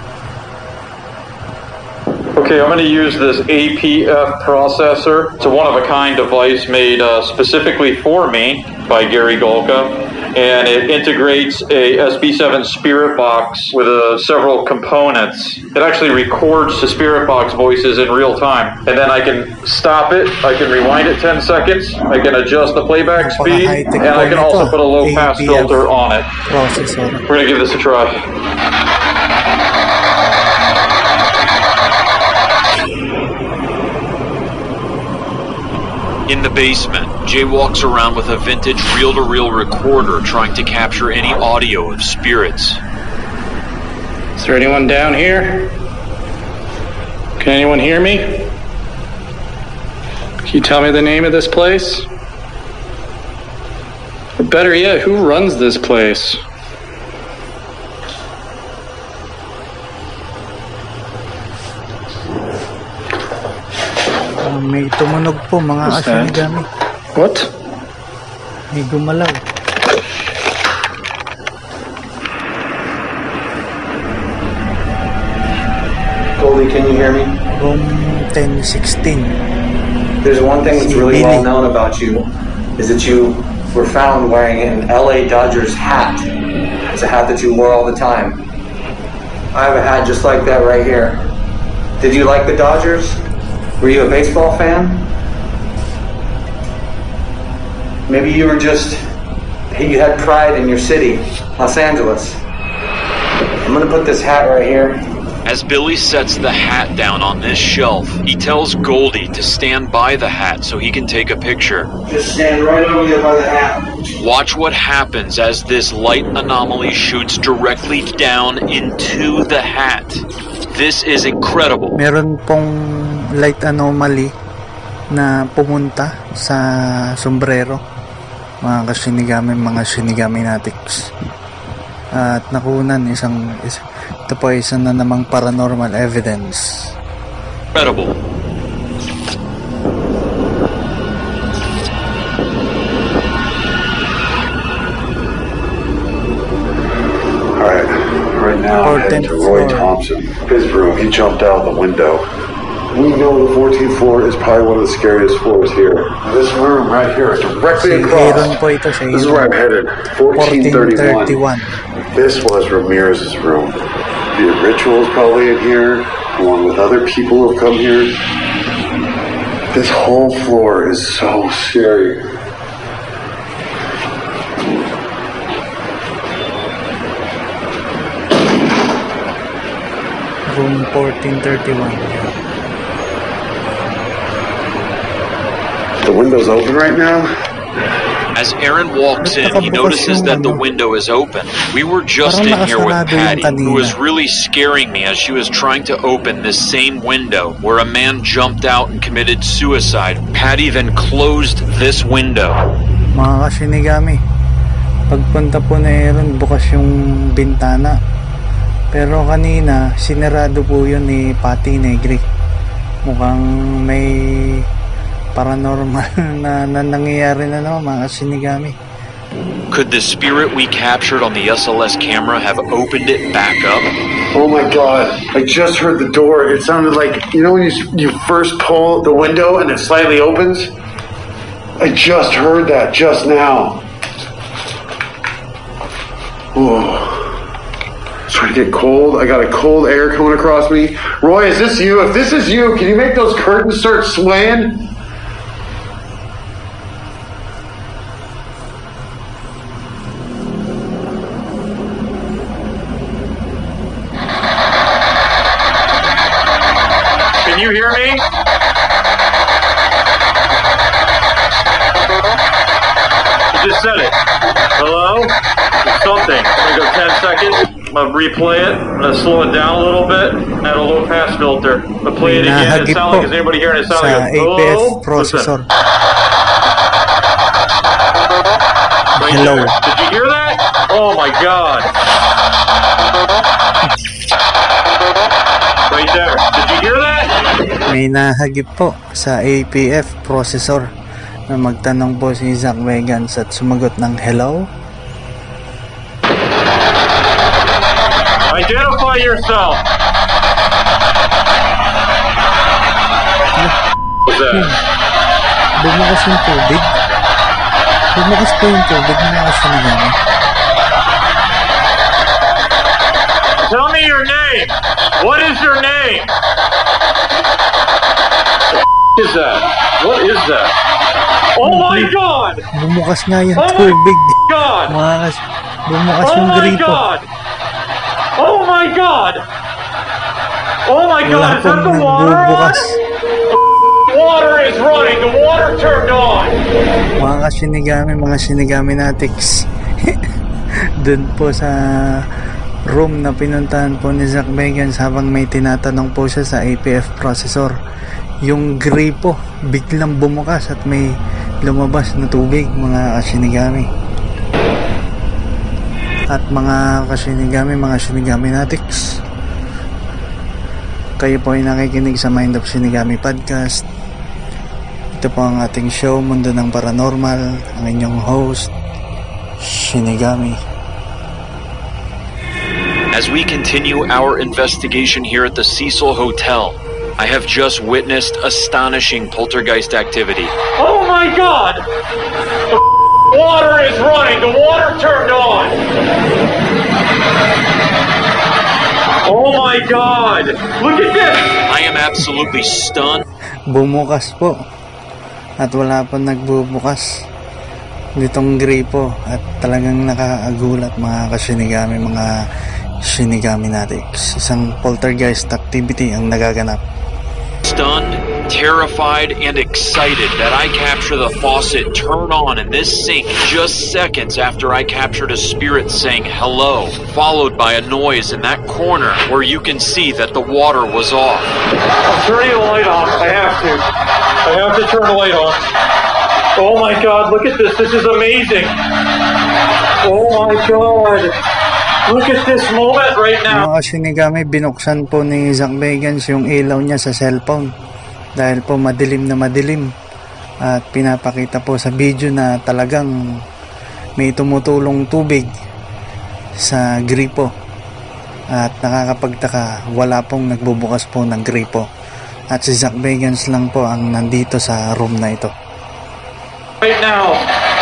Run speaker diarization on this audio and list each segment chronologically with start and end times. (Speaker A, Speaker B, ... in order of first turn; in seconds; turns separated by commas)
Speaker A: 2.4-26.3, Speaker B: 23.2-25.9, Speaker B: 26.5-27.2, Speaker A: 27.3-28.2, Speaker C: 36.3-42.8, Speaker D: 44.4-45.7, Speaker D: 47.4-48.5, Speaker D: 50.5-52.1, Speaker D: 54.4-56.4, Speaker B: 64.4-66.7, Speaker D: 65.8-66.5, Speaker D: 67.2-67.5, Speaker B: 68.7-69.4, Speaker E: 76.4-77.4, Speaker B: 77.5-79.3, Speaker E: 80.2-86.3, Speaker B: 80.7-81.5, Speaker E: 86.9-88.5, Speaker E: 89.5-91.3, Speaker E: 92.0-93.2, Speaker E: 93.8-95.1, Speaker E: 98.1-99.1, Speaker E: 99.7-102.4, Speaker E: 103.6-105.0, Speaker C: 105.5-111.9, Speaker E: 112.1-114.0, Speaker C: 114.2-122.0, Speaker B: 122.0-124.3, Speaker B: 125.1-126.6, Speaker B: 127.2-127.8, Speaker B: 128.6-131.1, Speaker B: 132.2-136.9, Speaker C: 137.7-138.1, Speaker F: 147.6-152.2, Speaker B: 148.8-149.9, Speaker F: 152.9-158.6, Speaker B: 157.8-159.5, Speaker F: 159.1-161.4, Speaker B: 160.3-161.7, Speaker F: 162.1-163.8, Speaker F: 164.3-168.2, Speaker F: 169.7-172.3, Speaker B: 180.5-182.1, Speaker F: 186.0-187.3, Speaker C: 188.3-202.6, Speaker B: 189.2-190.6, Speaker B: 192.2-194.0, Speaker B: 203.1-204.2, Speaker B: 205.1-208.0, Speaker B: 208.9-212.2, Speaker B: 213.1-214.7, Speaker B: 215.4-218.8, Speaker C: 219.7-223.9, Speaker F: 224.3-230.7, Speaker F: 231.8-233.8, Speaker F: 236.5-237.4, Speaker F: 238.3-244.8, Speaker A: 257.4-258.2, Speaker A: 263.5-264.2, Speaker A: 264.8-275.5, Speaker B: 272.2-273.3, Speaker B: 273.9-275.7, Speaker B: 279.2-279.8, Speaker A: 279.2-281.9, Speaker A: 285.9-287.3, Speaker B: 287.9-290.9, Speaker B: 291.5-294.6, Speaker A: 298.5-299.8, Speaker A: 304.3-304.7, Speaker B: 304.5-304.8, Speaker B: 305.8-306.9, Speaker B: 308.1-310.2, Speaker A: 313.6-316.3, Speaker A: 319.1-320.7, Speaker A: 321.6-322.6, Speaker B: 321.6-322.1, Speaker B: 322.7-327.0, Speaker A: 323.6-324.9, Speaker A: 326.2-327.3, Speaker A: 328.4-329.4, Speaker A: 330.9-333.0, Speaker B: 331.2-333.0, Speaker A: 334.1-336.6, Speaker B: 337.2-340.2, Speaker B: 341.0-342.2, Speaker B: 342.9-347.7, Speaker B: 348.5-351.1, Speaker B: 351.6-353.9, Speaker B: 356.3-359.1, Speaker B: 361.2-363.9, Speaker B: 365.2-368.7, Speaker B: 369.6-370.6, Speaker C: 373.1-380.5, Speaker A: 380.8-381.8, Speaker A: 382.7-385.8, Speaker A: 389.2-391.5, Speaker C: 391.7-393.2, Speaker B: 393.7-394.6, Speaker B: 395.6-397.1, Speaker B: 398.2-402.3, Speaker B: 403.1-406.8, Speaker C: 407.6-421.5, Speaker A: 422.0-423.9, Speaker A: 424.4-425.6, Speaker A: 426.6-428.8, Speaker A: 430.0-431.4, Speaker A: 432.1-433.7, Speaker B: 433.5-437.7, Speaker B: 438.4-439.9, Speaker B: 440.6-443.1, Speaker B: 444.2-445.5, Speaker B: 446.6-447.5, Speaker B: 448.5-451.9, Speaker B: 452.5-455.5, Speaker A: 456.8-457.5